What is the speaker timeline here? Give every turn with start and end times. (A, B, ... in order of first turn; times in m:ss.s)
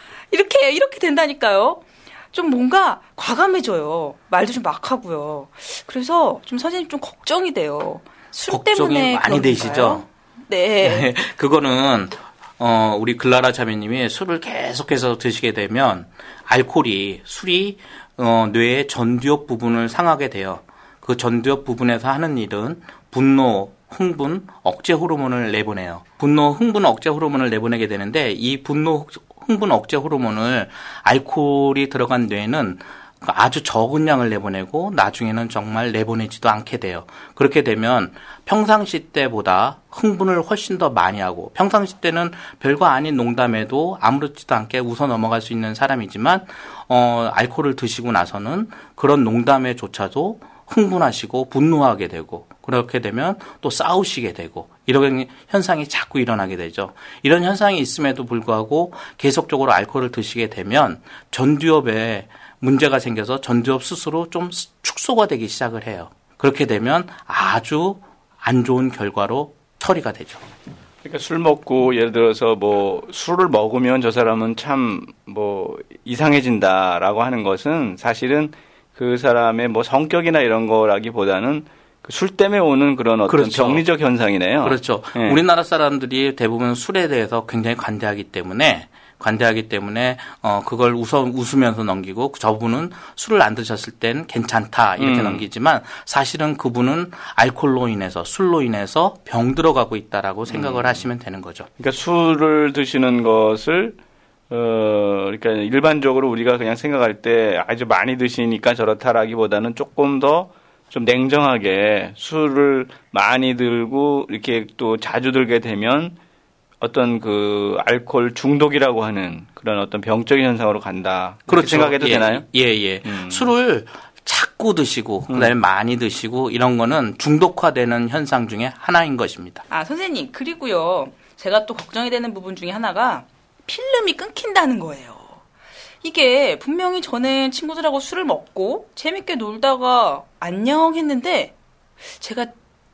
0:00.3-0:11.1 A
0:08.5-0:10.1 B
0:10.8-1:10.4 B
1:11.0-1:25.4 C
1:23.3-1:23.8 B
1:24.6-1:41.7 B
1:35.0-1:35.4 C
1:40.5-1:41.0 C
1:41.8-1:44.0 C
1:44.5-1:56.2 C
1:56.8-2:02.5 C
2:01.5-2:09.6 B
2:03.0-2:03.5 C
2:09.7-2:15.4 A
2:16.0-2:21.6 A
2:22.2-2:22.5 A